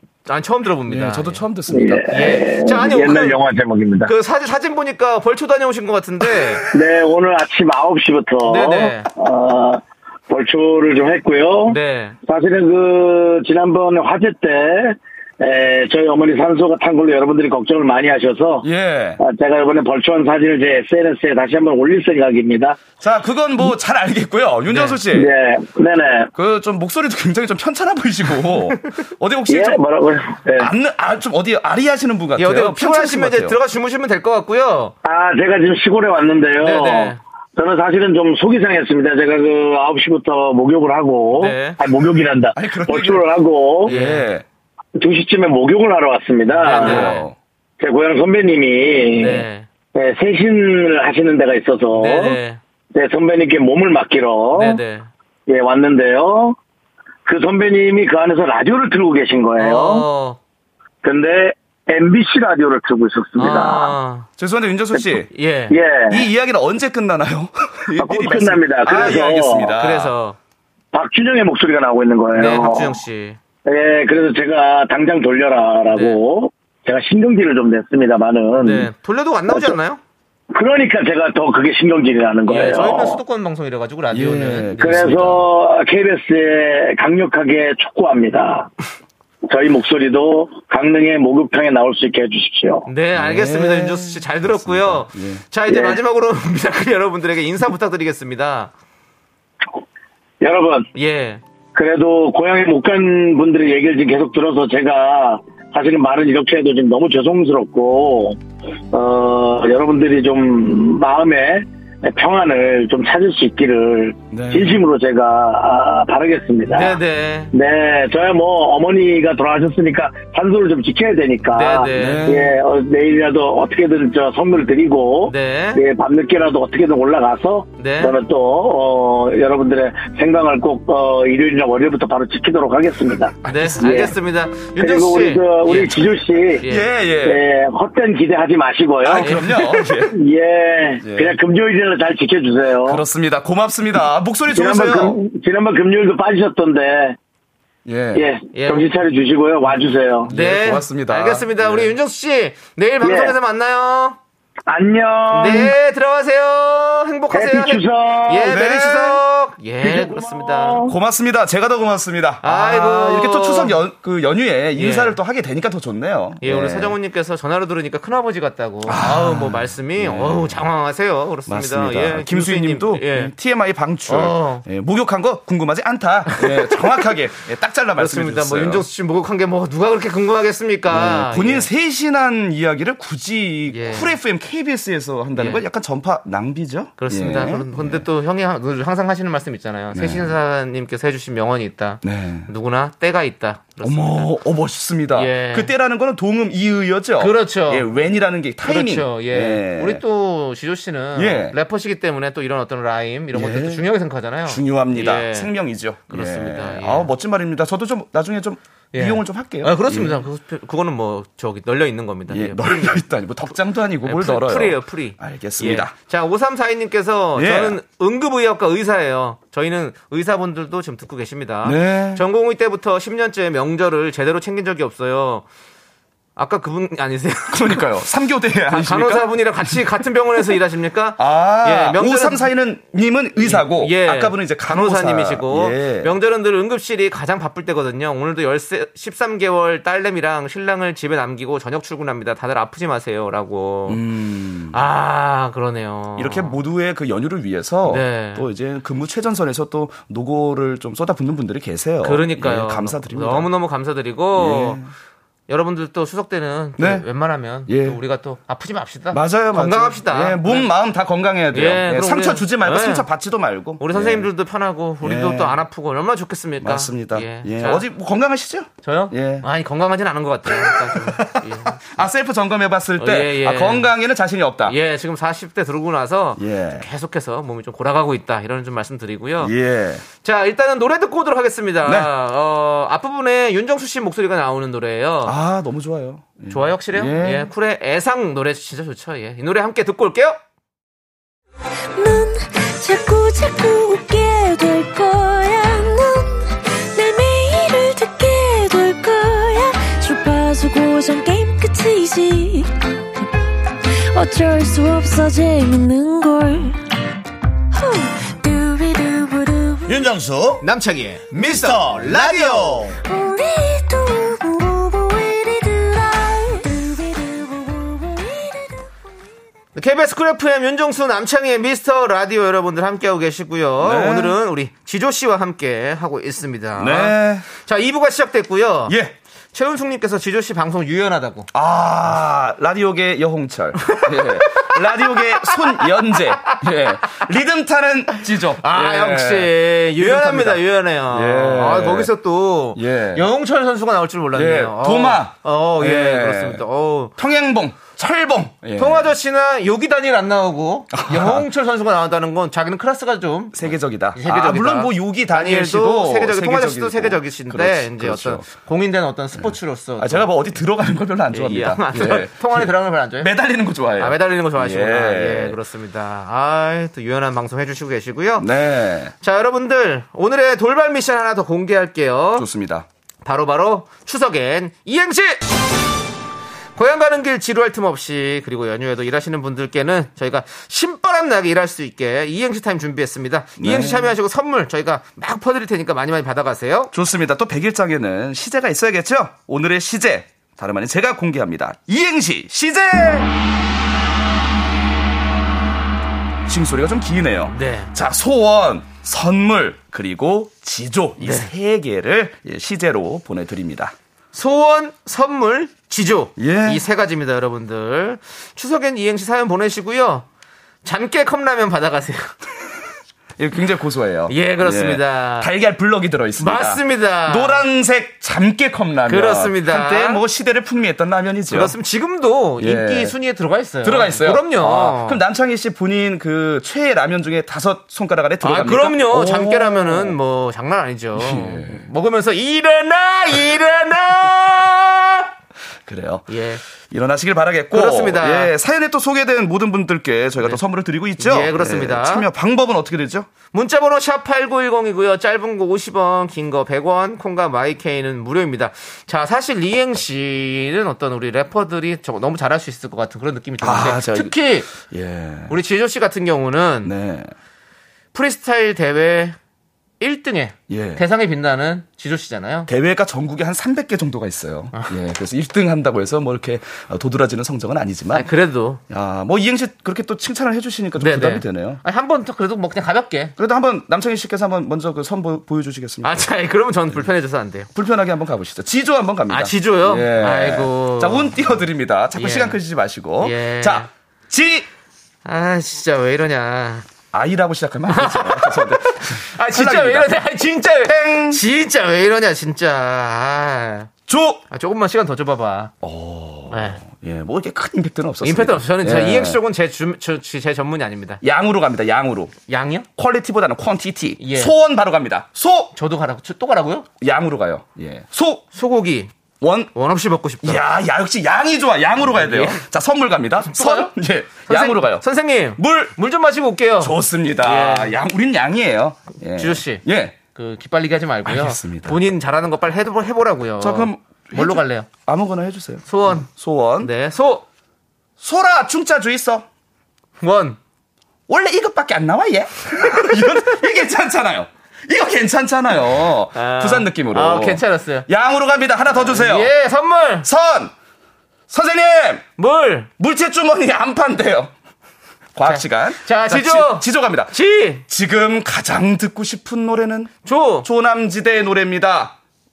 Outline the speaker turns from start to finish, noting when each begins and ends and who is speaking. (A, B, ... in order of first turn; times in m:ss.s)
0:00.3-0:01.4 A
0:00.9-0:02.3 B
0:01.7-0:04.1 C
0:02.1-0:03.4 A
0:04.0-0:06.6 A
0:06.7-0:18.6 C
0:08.4-0:09.1 A
0:11.7-0:12.2 A
0:18.6-0:19.2 B
0:19.2-0:22.8 C
0:23.0-0:25.3 B
0:24.7-0:25.0 A
0:25.1-0:26.3 C
0:26.3-0:29.8 B
0:29.5-0:30.7 C
0:30.6-0:33.6 B
0:32.4-0:34.9 A
0:35.0-0:43.9 C
0:36.6-0:37.2 A
0:41.3-0:41.8 A
0:42.5-0:43.3 B
0:43.8-0:44.4 B
0:43.8-0:44.3 A
0:45.0-0:47.2 C
0:46.6-0:47.2 A
0:46.6-0:47.3 B
0:47.8-0:52.4 C
0:49.2-0:49.7 A
0:51.9-0:52.6 A
0:52.9-0:54.8 C
0:54.5-0:55.1 A
0:55.5-0:56.6 C
0:57.2-1:00.0 C
0:59.6-1:00.4 A
1:01.0-1:03.9 C
1:03.4-1:04.3 A
1:04.4-1:05.3 B
1:05.3-1:05.8 A
1:05.7-1:06.2 C
1:06.1-1:10.1 B
1:08.0-1:09.7 C
1:08.8-1:10.4 A
1:10.9-1:12.9 C
1:12.3-1:13.4 A
1:13.6-1:18.9 C
1:15.9-1:16.2 A
1:18.6-1:20.0 A
1:19.5-1:19.8 C
1:20.5-1:23.2 C
1:22.5-1:25.2 A
1:24.1-1:25.4 B
1:24.8-1:28.7 C
1:29.5-1:32.9 C
1:32.8-1:38.7 A
1:33.1-1:35.4 B
1:35.7-1:36.0 C
1:40.4-1:40.9 C
1:40.9-1:41.4 A
1:41.7-1:48.4 C
1:48.9-1:57.0 C
1:54.3-1:54.8 B
1:56.7-1:57.5 A
1:57.5-2:14.1 C
2:01.5-2:02.3 A
2:01.9-2:02.5 B
2:05.2-2:05.8 A
2:07.8-2:08.2 A
2:13.4-2:16.9 A
2:13.4-2:13.8 B
2:14.8-2:16.6 C
2:16.7-2:17.4 B
2:17.2-2:23.0 C
2:19.0-2:20.2 B
2:19.2-2:19.5 A
2:21.0-2:21.4 B
2:22.8-2:25.2 B
2:24.5-2:27.2 C
2:27.8-2:28.2 B
2:28.1-2:30.3 C
2:28.5-2:28.9 A
2:30.2-2:31.9 B
2:30.3-2:34.2 A
2:33.0-2:33.3 C
2:34.7-2:35.7 C
2:35.3-2:40.8 A
2:37.3-2:38.5 C
2:38.4-2:39.2 B
2:39.8-2:40.9 C
2:40.8-2:47.0 B
2:42.4-2:43.8 A
2:44.8-2:45.2 A
2:46.4-2:53.3 A
2:48.8-2:50.7 B
2:51.5-2:58.8 B
2:54.1-2:54.6 A
2:56.3-2:56.8 A
2:58.0-3:01.7 A
3:00.9-3:08.0 B
3:03.7-3:04.1 A
3:05.4-3:05.6 A
3:07.0-3:14.3 A
3:09.9-3:10.4 B
3:12.0-3:12.5 B
3:13.8-3:20.0 B
3:15.1-3:15.7 A
3:17.2-3:17.9 A
3:18.6-3:25.5 A
3:21.2-3:21.6 B
3:23.3-3:23.8 B
3:24.4-3:30.2 B
3:26.1-3:27.1 A
3:28.9-3:33.0 A
3:32.3-3:35.9 B
3:34.0-3:45.4 A
3:37.3-3:37.8 B
3:41.6-3:42.2 B
3:46.4-3:47.8 A
3:47.5-3:49.8 B
3:48.7-3:52.5 A
3:51.2-3:56.1 B
3:53.4-4:04.0 A
4:03.9-4:04.8 B
4:04.7-4:06.6 A
4:06.2-4:13.5 B
4:07.8-4:08.4 A
4:12.0-4:14.8 A
4:14.3-4:14.9 B
4:15.5-4:20.7 A
4:16.8-4:17.0 B
4:17.6-4:18.0 B
4:19.1-4:24.3 B
4:21.5-4:23.0 A
4:23.8-4:27.8 A
4:25.0-4:25.6 B
4:26.6-4:29.4 B
4:28.8-4:31.8 A
4:30.5-4:34.8 B
4:33.0-4:33.9 A
4:34.6-4:39.5 A
4:36.4-4:36.8 B
4:39.4-4:40.0 B
4:40.2-4:45.3 A
4:41.8-4:42.1 B
4:45.2-4:47.5 B
4:46.5-4:50.4 A
4:52.0-5:02.7 D
5:04.1-5:06.8 D
5:07.7-5:10.0 D
5:09.9-5:10.6 E
5:10.6-5:12.9 A
5:11.3-5:12.9 E
5:13.0-5:18.8 D
5:19.7-5:29.0 A
5:23.8-5:24.4 B
5:26.8-5:27.4 B
5:28.9-5:29.1 B
5:29.5-5:31.5 A
5:31.5-5:42.1 B
5:33.9-5:35.9 A
5:38.6-5:47.1 A
5:42.7-5:43.3 B
5:44.3-5:46.6 B
5:47.2-5:49.1 B
5:48.8-6:00.3 A
5:50.9-5:51.4 B
5:53.5-5:58.5 B
5:59.3-6:05.6 B
6:01.3-6:03.3 A
6:04.0-6:08.5 A
6:08.4-6:09.1 B
6:09.2-6:12.5 A
6:12.4-6:12.9 B
6:13.2-6:15.4 A
6:16.8-6:26.9 A
6:23.6-6:24.1 B
6:26.9-6:33.3 B
6:36.4-6:43.9 B
6:37.5-6:37.9 A
6:41.2-6:41.5 A
6:44.3-6:50.2 A
6:46.4-6:46.8 B
6:50.8-6:52.3 A
6:53.4-7:01.8 B
6:54.3-6:55.5 A
6:56.4-6:57.6 A
6:59.1-7:00.2 A
7:01.5-7:05.2 A
7:02.6-7:03.2 B
7:03.8-7:10.2 B
7:08.4-7:15.3 A
7:11.1-7:11.8 B
7:15.8-7:16.4 B
7:16.3-7:16.6 A
7:16.9-7:23.3 B
7:17.7-7:18.5 A
7:21.2-7:22.3 A
7:23.5-7:34.7 A
7:33.6-7:35.6 B
7:35.5-7:36.9 A
7:36.8-7:37.3 B
7:38.1-7:39.4 A
7:40.0-7:42.7 A
7:40.7-7:41.0 B
7:42.7-7:48.3 B
7:48.1-7:48.8 A
7:48.9-7:51.8 B
7:51.0-7:53.3 A
7:53.4-7:56.3 B
7:56.0-7:57.7 A
7:57.7-8:04.7 B
7:59.3-8:01.4 A
8:02.1-8:02.6 A
8:03.2-8:03.9 A
8:05.2-8:06.8 A
8:07.1-8:10.2 B
8:07.9-8:13.9 A
8:10.8-8:11.4 B
8:14.1-8:14.4 B
8:14.5-8:15.7 A
8:15.8-8:19.4 B
8:16.5-8:16.8 A
8:18.2-8:21.2 A
8:21.2-8:22.3 B
8:22.5-8:22.9 A
8:23.0-8:25.7 B
8:24.2-8:24.5 A
8:25.7-8:26.8 A
8:27.0-8:28.4 B
8:28.5-8:29.1 A
8:29.4-8:29.7 B
8:29.7-8:30.6 A
8:30.4-8:35.0 B
8:32.1-8:32.6 A
8:33.4-8:33.9 A
8:34.4-8:38.0 A
8:35.6-8:35.9 B
8:36.8-8:40.2 B
8:39.4-8:39.8 A
8:40.3-8:44.9 A
8:41.2-8:42.1 B
8:43.6-8:46.9 B
8:45.9-8:46.3 A
8:46.8-8:47.4 A
8:48.2-8:49.5 B
8:50.2-8:50.6 A
8:51.3-8:59.5 B
8:56.3-8:58.1 A
8:58.9-9:00.3 A
9:00.2-9:00.7 B
9:01.5-9:02.2 B
9:02.4-9:02.9 A
9:03.0-9:04.5 B
9:05.3-9:12.2 B
9:05.4-9:07.8 A
9:10.2-9:10.7 A